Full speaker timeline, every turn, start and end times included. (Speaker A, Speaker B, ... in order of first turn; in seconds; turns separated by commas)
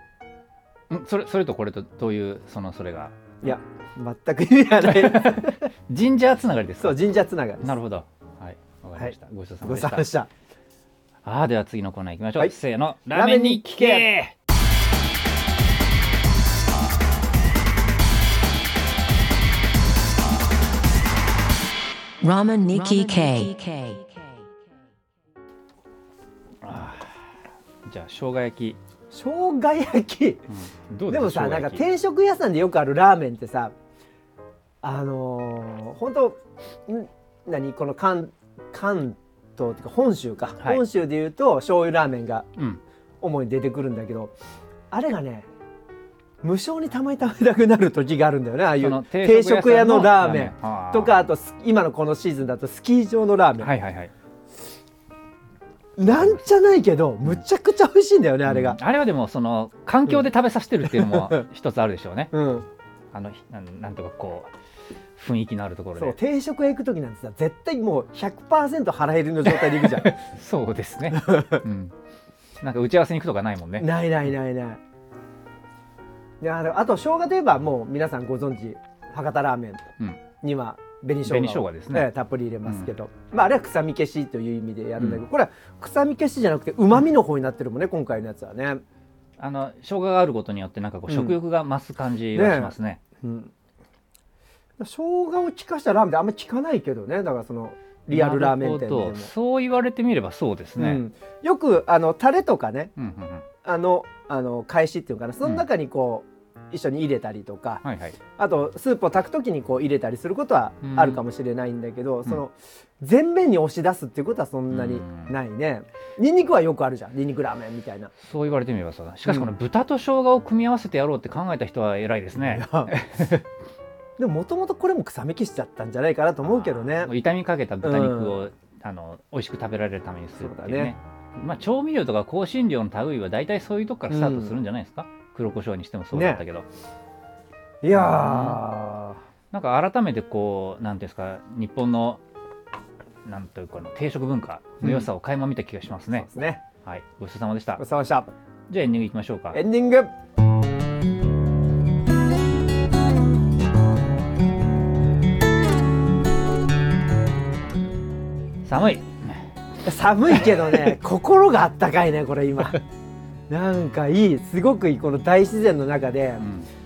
Speaker A: 0.9-3.6, Speaker B: 3.4-5.7, Speaker A: 4.8-7.0, Speaker B: 6.8-7.7, Speaker A: 7.6-10.1, Speaker B: 9.0-10.3, Speaker A: 11.2-14.3, Speaker B: 13.1-14.1, Speaker C: 22.2-24.4, Speaker A: 26.6-28.8, Speaker B: 29.1-30.4, Speaker A: 30.5-31.8, Speaker B: 31.1-33.7, Speaker B: 34.8-42.5, Speaker B: 43.2-44.4, Speaker B: 44.9-45.5, Speaker B: 46.4-53.7, Speaker A: 48.8-51.2, Speaker A: 53.6-54.1, Speaker B: 56.0-58.8, Speaker A: 56.1-56.4, Speaker A: 58.5-62.3, Speaker B: 60.8-61.5, Speaker B: 62.3-62.7, Speaker A: 63.1-64.5, Speaker A: 65.2-66.2, Speaker B: 66.0-70.1, Speaker A: 69.5-71.9, Speaker B: 71.1-71.6, Speaker A: 72.6-73.9, Speaker B: 73.8-74.8, Speaker B: 76.4-79.8, Speaker B: 80.4-88.8, Speaker A: 81.2-82.1, Speaker A: 82.6-82.9, Speaker A: 89.4-93.0, Speaker B: 91.1-91.4, Speaker B: 92.3-93.5, Speaker B: 94.8-99.3, Speaker A: 98.1-101.0, Speaker B: 100.8-102.9, Speaker A: 103.0-103.5, Speaker B: 103.6-107.8, Speaker A: 107.8-108.2, Speaker B: 108.3-118.1, Speaker A: 110.8-111.2, Speaker A: 114.7-115.3, Speaker A: 118.2-123.4, Speaker B: 122.3-122.9, Speaker B: 124.2-127.1, Speaker A: 126.4-136.7, Speaker B: 127.8-128.4, Speaker B: 130.4-130.9, Speaker B: 134.1-134.5, Speaker B: 136.1-136.4, Speaker B: 137.8-139.2, Speaker A: 137.9-138.6, Speaker A: 139.5-142.2, Speaker A: 143.2-146.3, Speaker B: 144.8-145.1, Speaker B: 146.1-146.6, Speaker A: 146.8-147.8, Speaker B: 147.8-148.3, Speaker A: 148.7-149.6, Speaker B: 149.5-150.1, Speaker A: 158.6-159.5, Speaker B: 159.8-162.8, Speaker B: 163.5-166.4, Speaker A: 166.4-166.7